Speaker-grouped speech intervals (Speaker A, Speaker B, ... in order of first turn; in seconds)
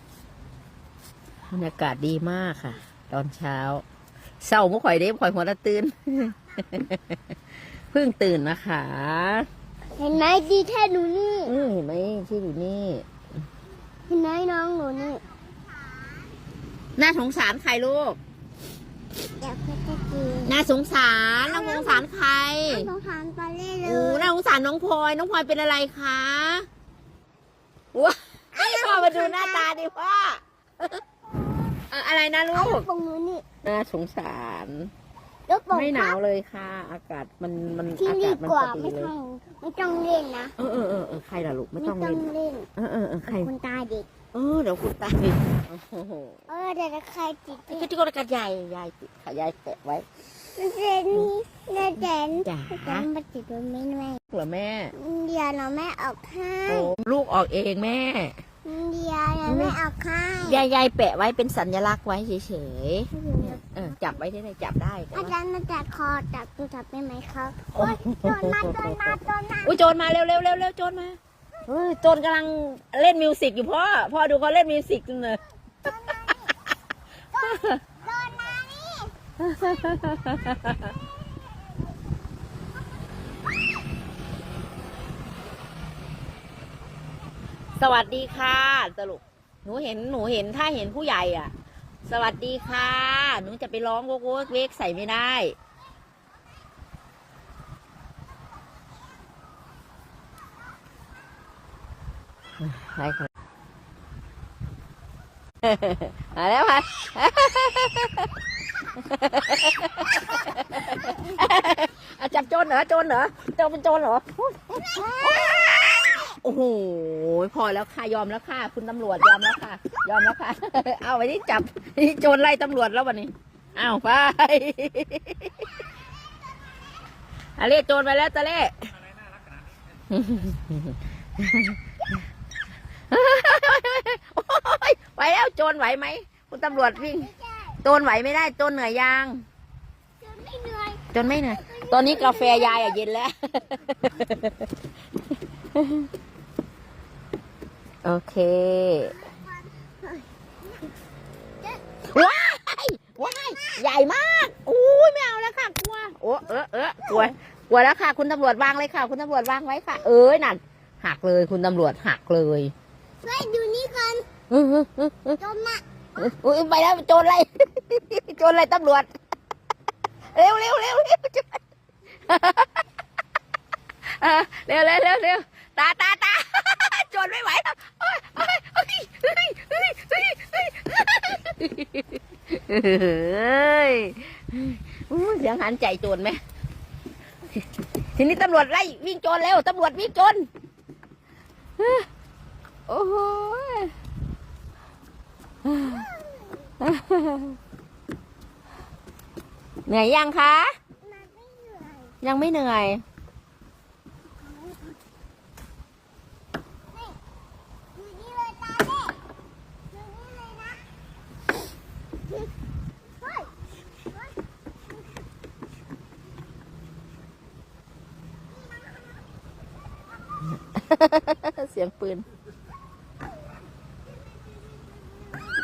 Speaker A: 1.5-3.8, 4.4-7.2, 7.9-9.5, 11.4-13.1, 16.9-18.2, 20.4-22.9, 23.8-26.6, 27.9-31.0, 31.9-32.9, 33.6-34.9, 35.7-39.1, 40.6-42.2, 42.8-43.5, 44.3-46.4, 47.7-50.0, 52.4-53.1, 54.3-54.9, 56.7-58.4, 59.4-59.8, 60.4-65.3, 67.7-76.3, 77.4-77.8, 79.4-80.9, 87.8-91.5, 92.1-95.5, 102.6-103.3, 105.6-108.3, 108.9-125.6, 127.6-128.9, 130.1-132.1, 133.1-137.3, 137.8-139.4, 141.1-144.7, 145.7-146.1, 148.0-149.2, 152.1-162.7, 164.5-165.4, 166.2-169.1, 170.3-171.6, 172.2-172.8, 174.1-186.4, 188.1-190.5, 191.8-192.1, 192.9-193.9, 195.6-196.1, 196.8-197.6, 199.8-200.7, 202.2-203.0, 220.7-222.2
Speaker B: 10.0-11.5, 14.1-15.2, 19.4-20.5, 21.4-22.1, 22.7-24.3, 28.5-29.7, 32.5-33.4, 35.5-36.2, 38.0-40.5, 41.8-42.7, 43.3-44.1, 46.5-47.9, 50.5-54.2, 54.9-56.9, 58.6-60.6, 63.1-64.0, 65.1-69.8, 75.9-76.5, 77.3-79.1, 114.9-116.2, 136.7-137.8, 140.2-143.0, 149.1-150.2, 153.2-153.8, 163.2-164.3, 165.4-165.8, 196.0-196.4, 201.0-202.1, 207.9-209.2, 209.9-210.8, 213.2-213.5